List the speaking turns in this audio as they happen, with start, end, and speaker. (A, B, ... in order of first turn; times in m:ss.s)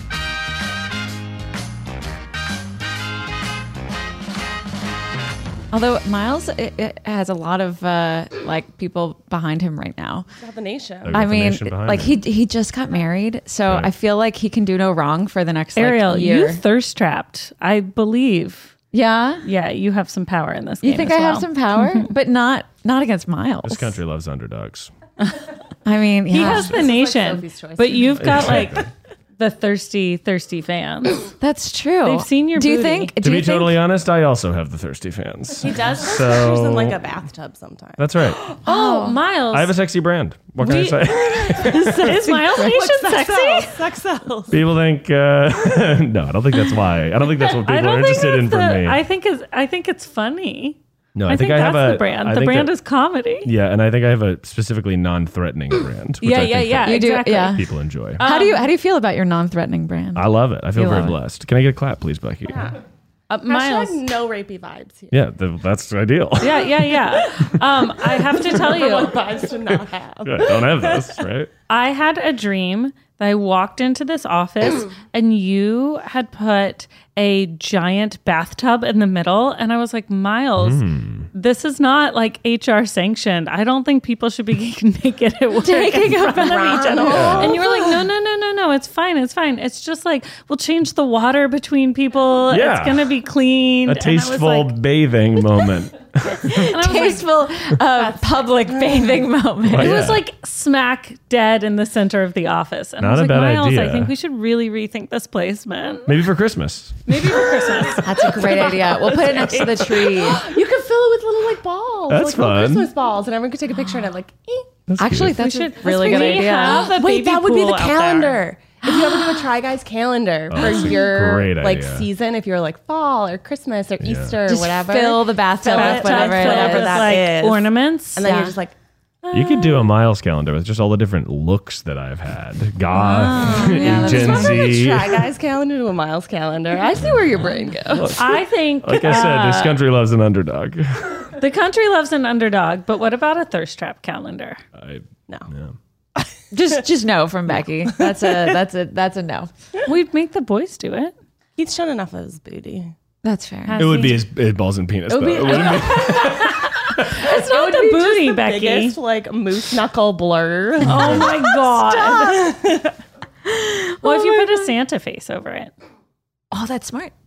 0:05.7-0:10.2 A
0:10.4-0:11.2 B
0:11.0-0:12.2 C
0:11.1-0:16.6 A
0:13.6-0:13.9 C
0:15.8-0:18.7 D
0:18.9-0:19.4 A
0:19.4-0:22.1 D
0:20.8-0:24.0 A
0:23.7-0:24.9 C
0:25.8-0:26.8 A
0:26.3-0:31.3 D
0:26.4-0:28.7 B
0:28.1-0:28.9 C
0:31.4-0:33.8 A
0:32.0-0:33.1 D
0:33.2-0:37.0 C
0:35.6-0:38.0 B
0:38.0-0:38.4 C
0:38.4-0:39.2 A
0:38.6-0:39.7 D
0:39.5-0:42.2 C
0:40.6-0:43.8 D
0:41.5-0:44.6 B
0:44.5-0:49.0 C
0:47.3-0:53.5 D
0:51.1-0:52.7 C
0:53.4-0:57.0 C
0:56.2-0:57.6 D
0:56.8-0:57.6 A
0:57.5-0:58.2 C
0:58.2-0:58.7 D
0:58.2-1:01.2 A
1:00.1-1:02.7 C
1:02.5-1:02.7 B
1:03.3-1:04.0 D
1:03.4-1:05.1 B
1:05.1-1:07.0 C
1:06.4-1:09.2 D
1:08.3-1:11.2 B
1:09.7-1:11.5 C
1:11.7-1:34.8 D
1:20.6-1:21.3 C
1:25.6-1:27.3 A
1:26.3-1:28.1 B
1:27.0-1:27.6 C
1:32.5-1:33.1 C
1:33.8-1:36.7 C
1:36.4-1:40.0 A
1:36.5-1:37.2 D
1:38.7-1:39.1 B
1:39.7-1:40.2 C
1:39.8-1:46.2 D
1:43.0-1:44.1 C
1:46.1-1:47.5 C
1:47.0-1:48.1 D
1:47.6-1:54.8 B
1:48.0-1:50.5 A
1:52.1-1:52.9 C
1:54.9-1:55.4 C
1:55.0-1:56.9 A
1:55.2-1:58.4 D
1:55.8-2:08.7 B
1:58.8-1:59.4 A
2:00.5-2:02.1 C
2:00.6-2:00.9 A
2:04.0-2:04.4 C
2:04.4-2:07.1 A
2:05.7-2:08.5 D
2:09.3-2:09.8 D
2:09.3-2:15.2 C
2:12.9-2:14.6 A
2:13.8-2:17.7 B
2:16.8-2:18.2 A
2:17.0-2:21.3 C
2:18.1-2:19.8 D
2:21.4-2:24.6 D
2:24.7-2:25.8 C
2:26.2-2:26.8 B
2:26.5-2:29.5 A
2:27.8-2:28.6 B
2:29.8-2:31.1 D
2:31.6-2:32.9 B
2:33.2-2:33.9 A
2:33.7-2:34.2 D
2:33.8-2:37.2 C
2:35.1-2:36.3 B
2:35.5-2:39.0 D
2:37.1-2:43.0 B
2:40.8-2:42.5 D
2:43.4-2:44.7 A
2:44.0-2:45.7 D
2:46.5-2:47.1 A